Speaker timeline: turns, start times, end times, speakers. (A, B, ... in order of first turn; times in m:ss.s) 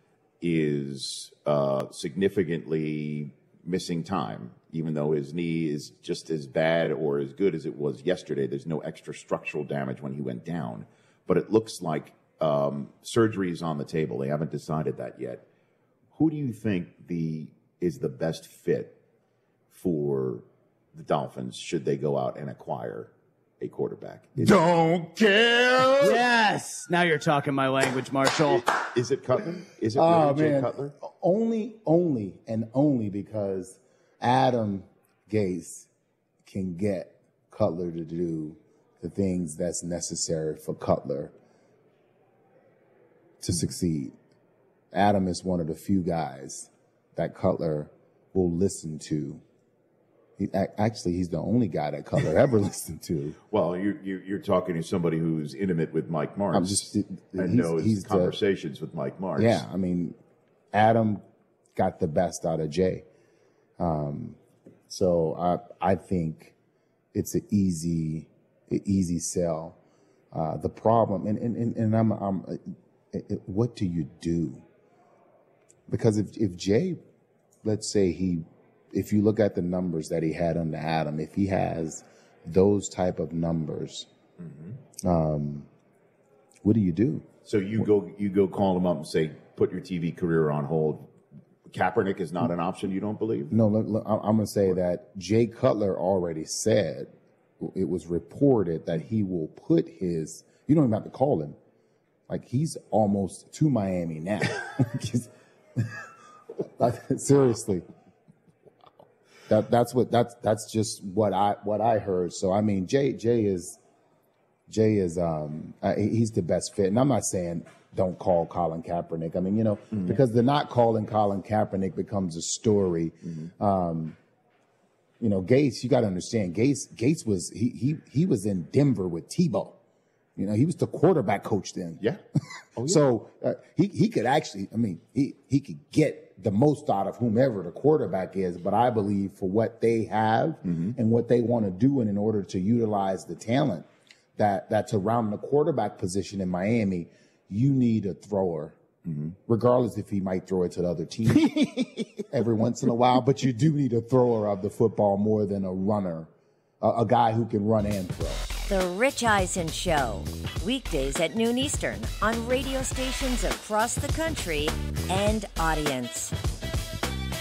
0:00.4-0:15.4 A
0:16.1-0:19.0 A
0:19.7-0:24.8 A
0:24.4-0:26.2 B
0:25.8-0:26.1 A
0:26.0-0:28.6 C
0:28.5-0:31.0 A
0:30.0-0:35.9 B
0:36.4-0:41.3 B
0:43.4-0:44.1 B
0:44.9-0:49.4 B
0:50.4-0:53.4 B
0:53.5-0:59.6 A
0:56.5-0:58.4 B
0:59.4-1:00.2 B
1:00.7-1:01.2 B
1:01.8-1:03.0 B
1:03.8-1:06.6 B
1:07.1-1:09.8 B
1:10.3-1:14.6 B
1:15.9-1:17.0 B
1:17.6-1:24.1 B
1:25.0-1:25.7 B
1:26.6-1:27.3 B
1:27.4-1:31.1 A
1:31.7-1:33.6 A
1:33.5-1:41.6 B
1:42.3-1:46.1 B
1:46.6-1:47.8 B
1:49.5-1:53.8 B
1:54.7-2:04.2 B
2:05.2-2:09.8 B
2:10.4-2:12.0 B
2:12.8-2:13.0 A
2:12.8-2:28.8 B
2:29.5-2:36.3 B
2:36.8-2:38.4 B
2:38.7-2:46.3 D